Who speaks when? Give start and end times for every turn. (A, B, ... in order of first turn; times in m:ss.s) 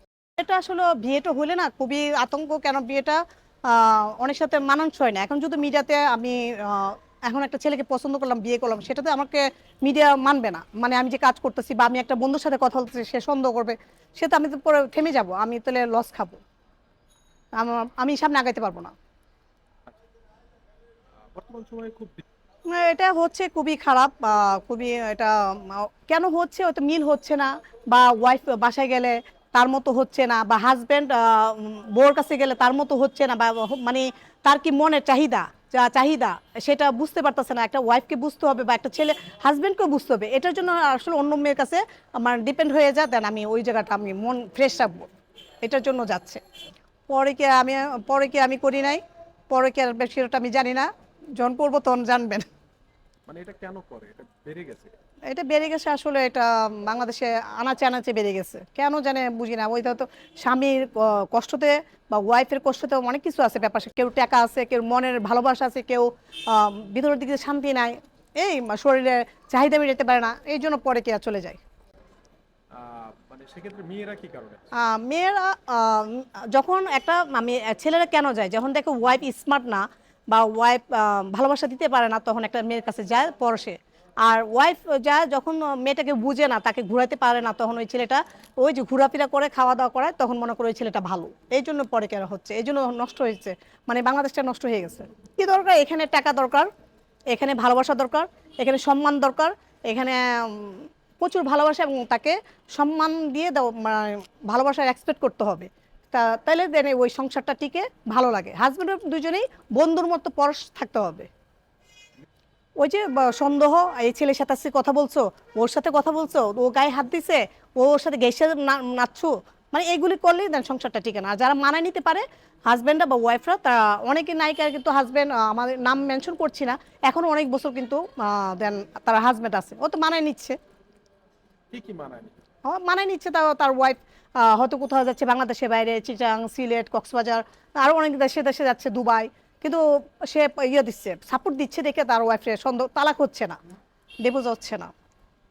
0:00.4-0:16.4 A
0:17.6-0:18.9 A
0:21.3-0:22.2 B
0:22.7-0:45.1 A
0:45.6-0:46.4 A
0:47.1-0:52.4 A
0:53.3-0:54.9 B
0:55.3-1:11.6 A
1:12.7-1:14.6 B
1:14.7-1:36.7 A
1:37.3-1:51.3 A
1:52.8-2:10.6 A
2:11.7-2:12.4 B
2:12.6-2:23.6 A
2:24.2-2:24.9 A